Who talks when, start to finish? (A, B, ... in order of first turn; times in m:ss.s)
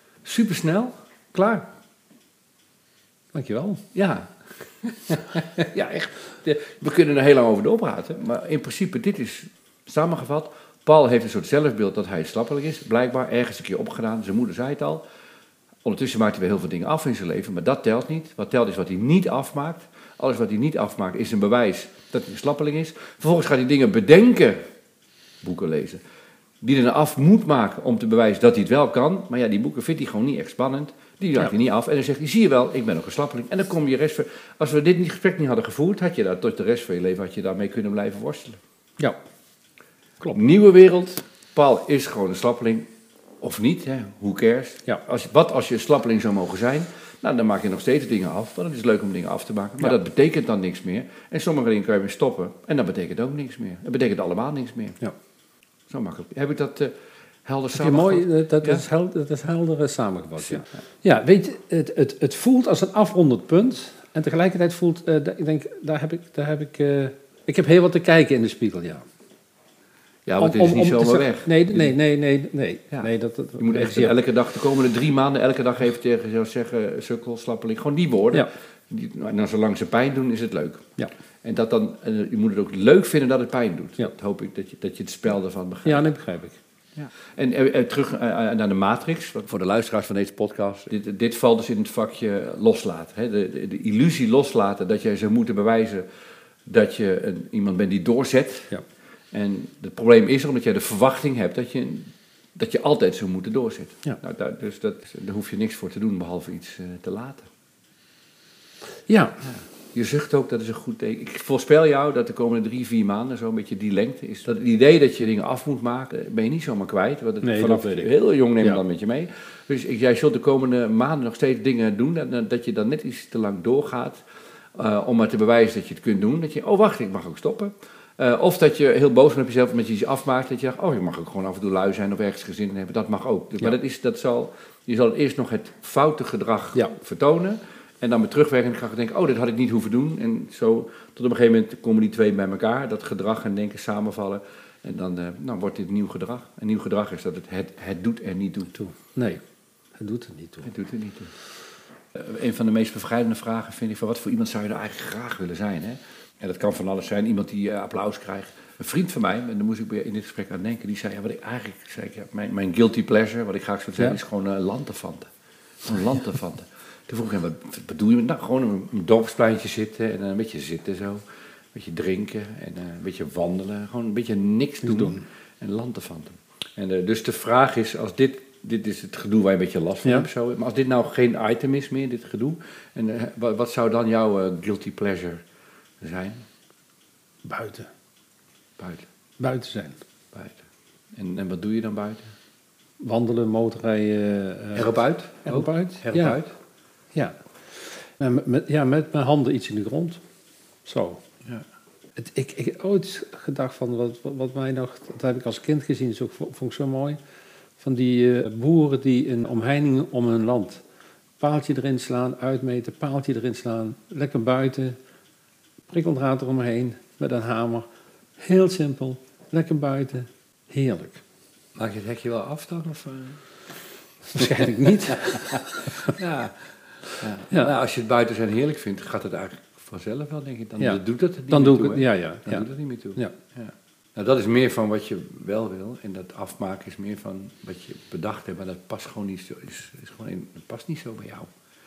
0:00.2-0:01.6 A
0:03.3-0:03.8 B
0:03.9-0:04.3 A
0:04.8-0:15.0 A
0:15.8-0:24.6 A
0:25.4-0:26.0 A
0:26.6-0:38.6 A
0:40.3-0:42.9 A
0:43.4-0:55.0 A
0:55.9-0:56.9 A
0:57.4-0:58.8 A
0:57.7-1:09.0 B
1:10.2-1:12.0 A
1:10.4-1:14.2 B
1:12.9-1:20.9 A
1:21.4-1:26.1 A
1:25.8-1:26.6 B
1:27.0-1:36.0 A
1:36.7-1:38.7 A
1:39.3-1:47.5 A
1:49.1-1:49.4 B
1:49.4-2:04.2 A
1:57.4-1:58.8 B
2:04.7-2:28.7 A
2:28.8-2:29.4 B
2:30.0-2:30.7 B
2:30.6-2:31.3 A
2:32.1-2:45.3 A
2:45.8-2:51.2 A
2:51.7-3:05.4 A
2:54.8-2:55.2 B
3:06.0-3:06.4 A
3:07.4-3:07.9 B
3:08.8-3:09.0 A
3:09.4-3:10.0 B
3:10.3-3:10.6 A
3:11.1-3:12.3 A
3:13.0-3:14.9 B
3:14.7-3:16.5 A
3:15.4-3:16.4 B
3:18.0-3:20.2 B
3:20.8-3:21.2 B
3:22.2-3:27.2 B
3:27.8-3:30.8 B
3:31.4-3:35.0 B
3:35.9-3:37.9 B
3:38.4-3:41.2 B
3:41.8-3:43.4 A
3:44.3-3:46.1 B
3:45.2-3:46.5 A
3:47.2-4:01.5 A
3:51.5-3:53.3 B